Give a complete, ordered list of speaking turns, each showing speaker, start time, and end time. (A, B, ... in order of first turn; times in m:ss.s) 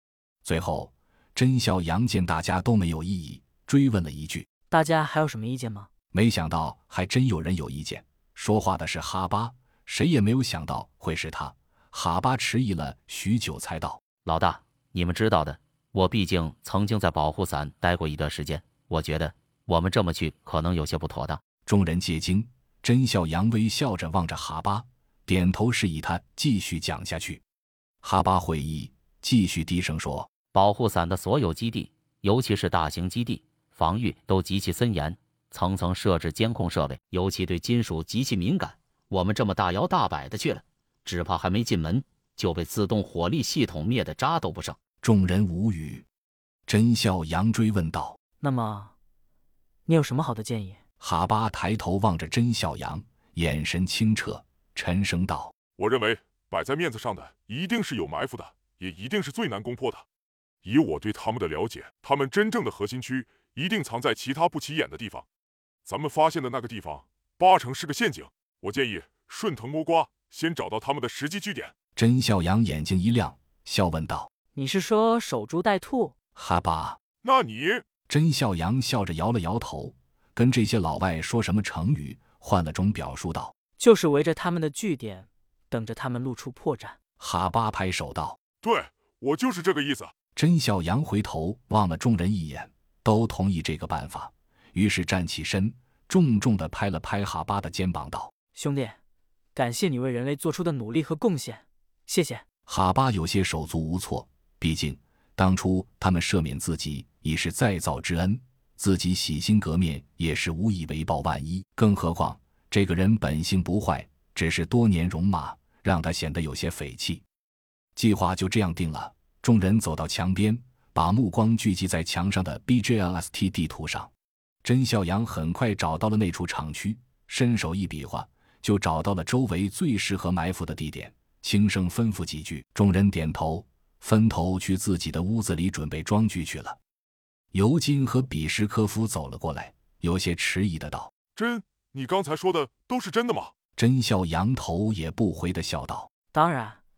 0:00.4-0:04.5 A
0:04.7-0:05.9 B
0:06.1-0:14.0 A
0:14.2-0:21.4 C
0:21.6-0:27.4 A
0:28.0-0:30.3 A
0:30.5-0:44.8 C
0:45.0-0:46.1 A
0:46.7-0:48.2 A
0:48.4-0:48.9 B
0:49.9-0:50.8 B
0:51.0-0:55.5 A
0:55.8-1:00.1 D
1:00.6-1:05.3 D
1:05.8-1:11.7 D
1:12.0-1:14.3 A
1:14.5-1:16.2 B
1:16.3-1:17.0 A
1:17.2-1:17.8 D
1:18.1-1:23.6 A
1:23.8-1:27.0 B
1:27.2-1:28.4 A
1:28.6-1:30.1 D
1:30.4-1:38.3 A
1:38.5-1:39.0 B
1:39.6-1:42.4 B
1:42.7-1:57.2 A
1:58.0-2:04.1 A
2:04.6-2:16.8 A
2:17.5-2:21.1 A
2:21.3-2:23.5 D
2:23.8-2:26.1 A
2:26.3-2:26.8 B